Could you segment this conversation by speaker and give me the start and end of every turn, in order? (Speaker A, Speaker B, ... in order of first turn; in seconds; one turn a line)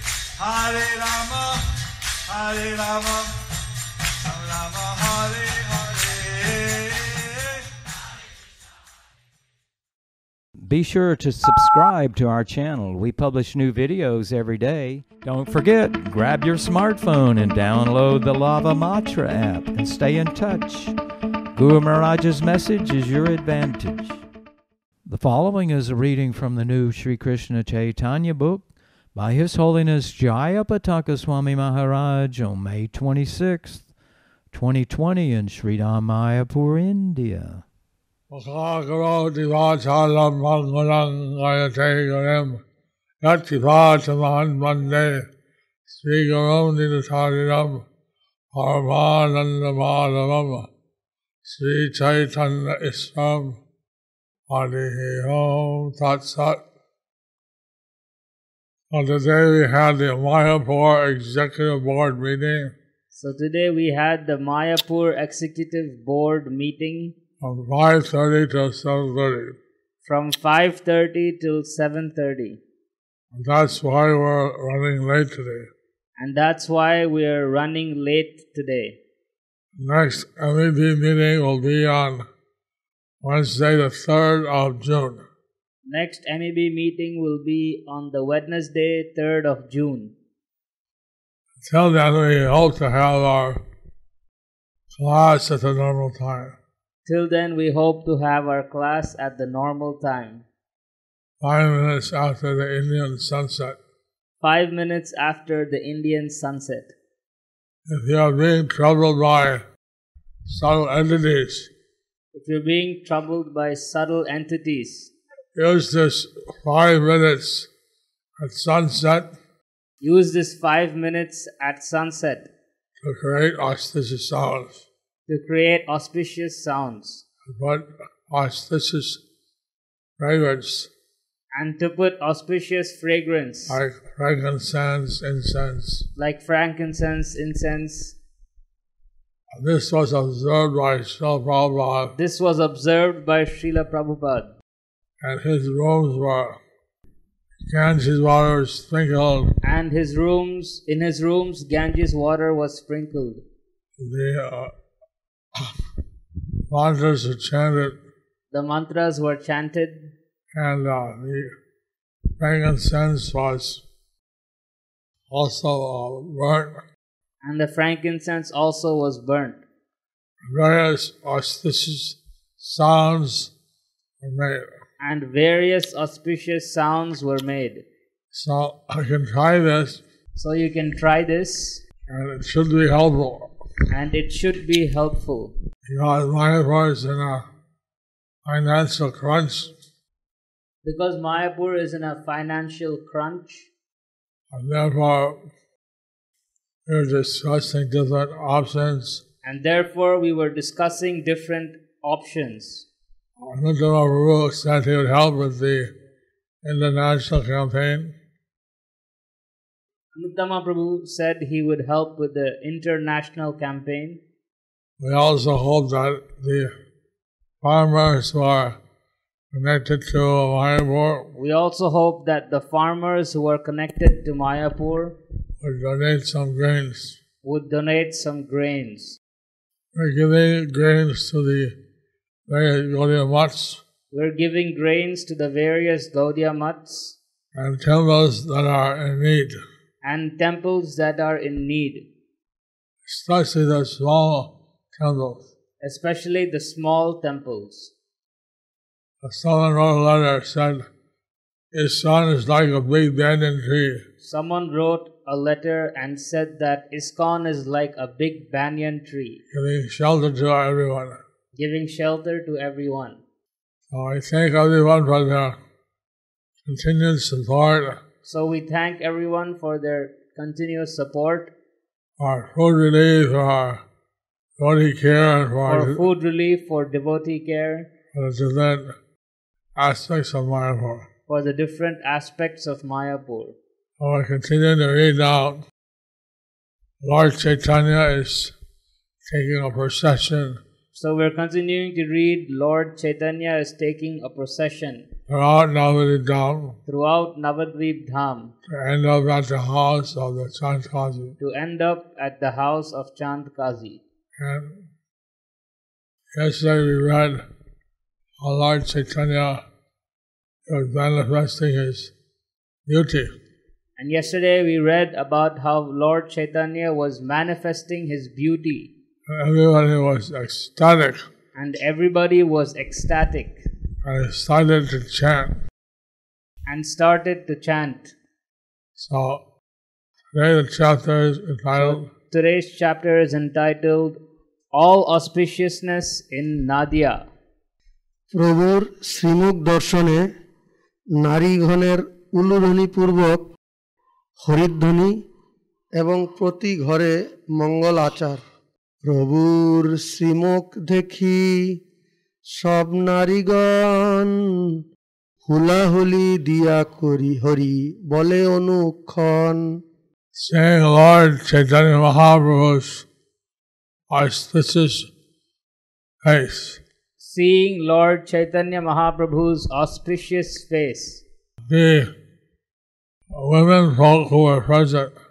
Speaker A: 0.4-1.7
Speaker A: 2.3-3.4
Speaker A: 4.2-7.6
Speaker B: 10.6-21.0
Speaker B: 21.5-24.2
Speaker B: 25.1-33.9
Speaker B: 34.5-37.6
Speaker C: 38.3-42.6
Speaker C: 43.2-45.3
Speaker C: 45.9-47.8
Speaker C: 48.5-50.7
Speaker C: 51.4-53.6
Speaker C: 54.5-56.6
Speaker C: 58.9-62.7
Speaker D: 63.1-67.2
Speaker C: 67.4-69.5
Speaker D: 70.0-72.6
Speaker C: 73.3-75.7
Speaker D: 76.2-79.0
Speaker C: 79.8-82.2
Speaker C: 83.2-85.2
Speaker D: 85.9-90.2
Speaker C: 91.6-93.6
Speaker C: 94.9-96.6
Speaker D: 97.1-100.5
Speaker C: 101.4-103.8
Speaker D: 104.4-106.9
Speaker C: 107.9-109.6
Speaker C: 110.5-111.7
Speaker D: 112.3-115.1
Speaker C: 115.5-117.7
Speaker C: 118.4-119.3
Speaker D: 120.0-122.5
Speaker C: 123.0-124.9
Speaker D: 125.3-127.2
Speaker C: 127.5-129.2
Speaker C: 130.2-130.9
Speaker D: 131.6-133.8
Speaker C: 133.7-136.1
Speaker D: 136.2-138.2
Speaker C: 139.5-142.1
Speaker D: 142.1-144.5
Speaker C: 145.2-146.6
Speaker C: 147.6-149.5
Speaker D: 149.6-153.4
Speaker C: 154.0-154.7
Speaker C: 156.7-158.0
Speaker D: 158.5-160.1
Speaker C: 160.5-161.5
Speaker C: 162.4-163.8
Speaker C: 165.3-166.8
Speaker D: 167.4-169.6
Speaker C: 170.4-173.5
Speaker C: 174.2-174.7
Speaker D: 175.0-177.8
Speaker C: 178.3-180.0
Speaker D: 180.3-181.8
Speaker C: 182.1-183.5
Speaker D: 183.9-185.5
Speaker C: 185.9-187.5
Speaker C: 188.5-189.7
Speaker D: 190.8-193.7
Speaker C: 194.5-195.4
Speaker C: 196.9-199.2
Speaker D: 199.4-202.9
Speaker C: 203.4-205.9
Speaker C: 206.6-208.1
Speaker D: 210.2-214.2
Speaker C: 215.0-216.7
Speaker C: 217.6-218.8
Speaker C: 219.5-221.3
Speaker D: 221.3-225.2
Speaker C: 225.6-227.2
Speaker D: 227.4-229.2
Speaker C: 229.9-231.7
Speaker C: 232.5-233.8
Speaker D: 234.1-237.2
Speaker C: 237.5-239.6
Speaker D: 240.0-242.1
Speaker C: 243.1-245.5
Speaker D: 245.8-247.9
Speaker C: 249.2-250.8
Speaker C: 251.7-254.0
Speaker D: 254.2-259.4
Speaker C: 259.5-261.2
Speaker D: 261.6-263.2
Speaker C: 263.9-265.6
Speaker C: 266.7-268.0
Speaker D: 268.2-271.5
Speaker C: 272.2-273.8
Speaker C: 274.6-276.0
Speaker D: 275.7-277.9
Speaker C: 278.1-278.9
Speaker C: 279.8-281.1
Speaker D: 281.3-283.6
Speaker C: 284.0-285.6
Speaker C: 287.0-288.5
Speaker C: 289.2-290.6
Speaker D: 290.9-295.1
Speaker C: 295.3-296.8
Speaker D: 296.9-298.5
Speaker C: 298.7-301.4
Speaker D: 301.4-304.0
Speaker C: 304.4-304.8
Speaker C: 306.4-307.4
Speaker C: 308.4-309.6
Speaker C: 310.7-312.1
Speaker C: 312.9-313.3
Speaker D: 314.0-318.9
Speaker C: 319.3-321.2
Speaker D: 321.6-323.6
Speaker C: 324.0-325.6
Speaker D: 326.7-328.1
Speaker C: 329.0-329.4
Speaker C: 330.3-332.1
Speaker D: 331.8-334.2
Speaker D: 334.7-337.2
Speaker E: 338.3-340.3
Speaker E: 341.2-343.5
Speaker E: 344.4-345.2
Speaker E: 346.0-348.4
Speaker E: 349.0-351.8
Speaker E: 352.5-354.4
Speaker E: 355.4-359.8
Speaker C: 360.4-363.1
Speaker C: 364.1-365.1
Speaker C: 366.2-366.8
Speaker D: 367.2-371.2
Speaker C: 371.7-372.1
Speaker C: 373.3-375.1